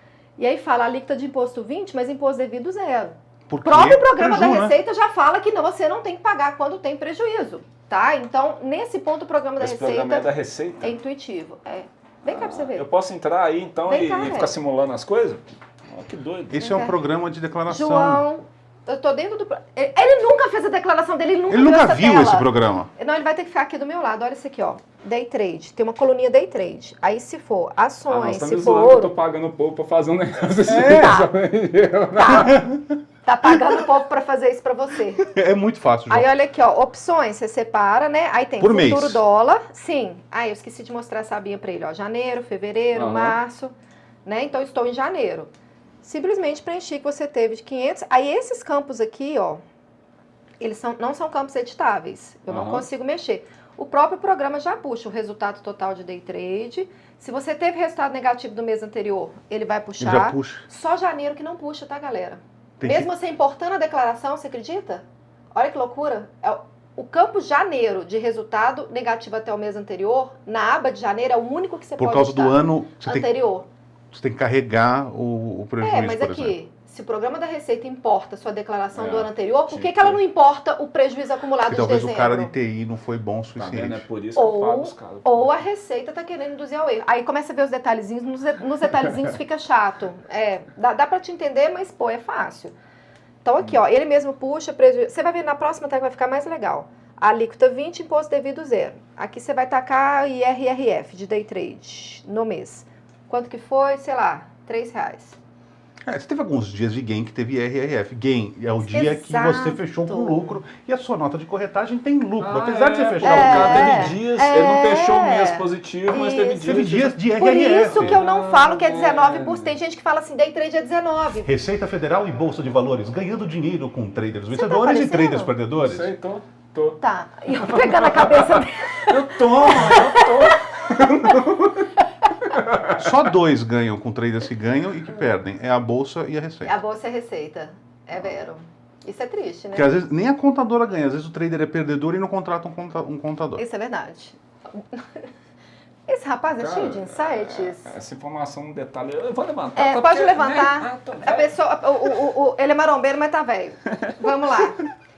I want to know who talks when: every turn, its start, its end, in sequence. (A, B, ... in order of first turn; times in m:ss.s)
0:00.4-0:10.3 A
0:03.5-0:04.8 B
0:09.6-0:10.9 C
0:10.8-0:12.9 A
0:12.2-0:16.6 C
0:13.9-0:14.6 A
0:16.5-0:18.2 B
0:16.6-0:17.0 A
0:17.7-0:29.1 A
0:21.5-0:22.9 B
0:28.1-0:32.6 C
0:30.7-0:31.2 B
0:30.9-0:31.3 A
0:32.1-0:32.6 A
0:32.4-0:33.0 B
0:33.2-0:35.2 A
0:35.2-0:36.3 B
0:36.1-0:43.7 A
0:38.6-0:39.2 B
0:42.9-0:43.4 C
0:44.2-0:45.5 A
0:46.0-0:49.6 A
0:50.6-1:13.7 A
0:52.5-0:52.9 C
1:00.0-1:00.6 B
1:02.8-1:03.1 B
1:12.0-1:13.3 B
1:14.1-1:16.6 B
1:15.8-1:22.5 A
1:18.9-1:20.2 C
1:21.6-1:24.0 B
1:23.6-1:25.6 C
1:24.3-1:32.8 A
1:33.4-1:45.4 A
1:46.1-1:54.2 B
1:48.9-1:50.6 A
1:52.4-1:57.2 C
1:53.2-2:01.6 A
1:56.6-1:58.2 B
1:57.8-1:59.7 C
2:01.4-2:06.1 B
2:04.5-2:05.5 A
2:05.8-2:12.0 C
2:07.0-2:10.7 A
2:12.5-2:13.2 C
2:12.9-2:16.7 B
2:16.6-2:20.0 A
2:19.7-2:23.6 B
2:23.6-2:25.3 A
2:26.1-2:27.9 A
2:26.6-2:31.6 C
2:29.8-2:34.8 A
2:34.0-2:34.9 C